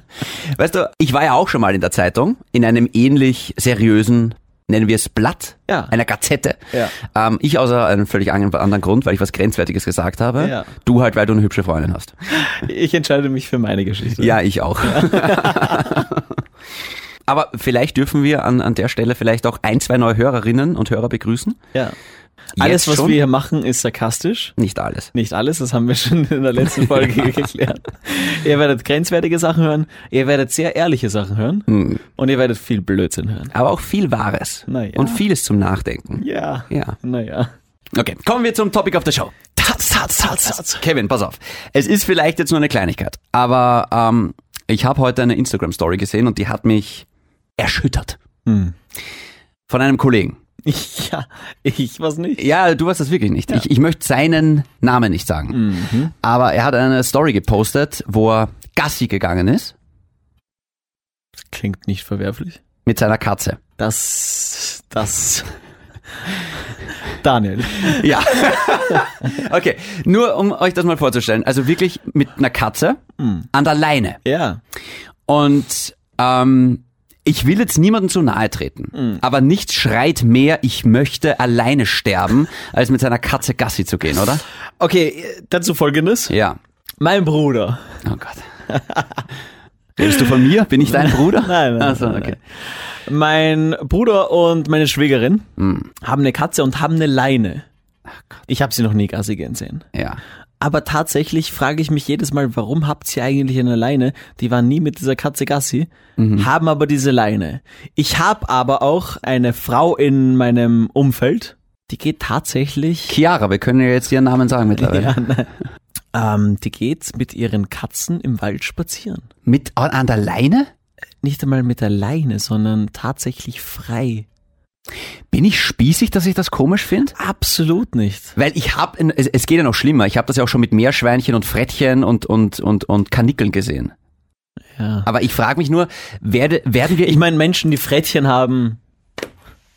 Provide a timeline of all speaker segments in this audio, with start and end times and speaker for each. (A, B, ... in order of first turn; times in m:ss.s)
0:00.4-0:12.2 A
0:05.7-0:05.9 B
0:10.4-0:10.7 B
0:12.3-0:16.0 B
0:14.2-0:16.3 A
0:17.3-0:21.6 A
0:22.6-0:23.2 A
0:22.6-0:24.6 B
0:24.6-0:25.1 A
0:25.1-0:33.5 B
0:31.7-0:32.0 A
0:33.5-0:37.0 A
0:34.7-0:35.2 B
0:36.2-0:37.5 B
0:37.9-0:47.1 A
0:39.6-0:40.8 B
0:47.6-0:48.2 A
0:48.5-0:48.8 B
0:49.7-0:50.4 A
0:50.6-0:52.4 B
0:52.4-0:59.7 A
0:55.5-0:56.1 B
1:01.5-1:02.6 B
1:02.9-1:03.6 A
1:03.8-1:05.5 B
1:07.2-1:08.1 B
1:07.8-1:13.0 A
1:13.2-1:13.5 B
1:13.5-1:14.2 A
1:14.2-1:14.6 B
1:15.3-1:24.4 A
1:18.9-1:19.2 B
1:24.8-1:26.3 B
1:26.3-1:26.6 A
1:27.0-1:27.8 B
1:28.0-1:28.5 A
1:28.7-1:29.2 B
1:30.0-1:32.4 A
1:30.8-1:32.4 B
1:33.1-1:35.5 B
1:35.6-1:35.9 A
1:36.0-1:37.7 B
1:38.5-1:39.9 B
1:39.9-1:40.2 A
1:40.6-1:53.2 B
1:46.2-1:46.5 A
1:53.1-1:55.2 A
1:54.8-1:55.5 B
1:56.1-1:59.3 B
1:59.5-2:00.7 A
2:01.2-2:04.3 B
2:05.3-2:07.2 A
2:07.2-2:08.4 B
2:08.4-2:13.9 A
2:14.8-2:15.1 B
2:15.0-2:17.2 A
2:17.0-2:18.8 B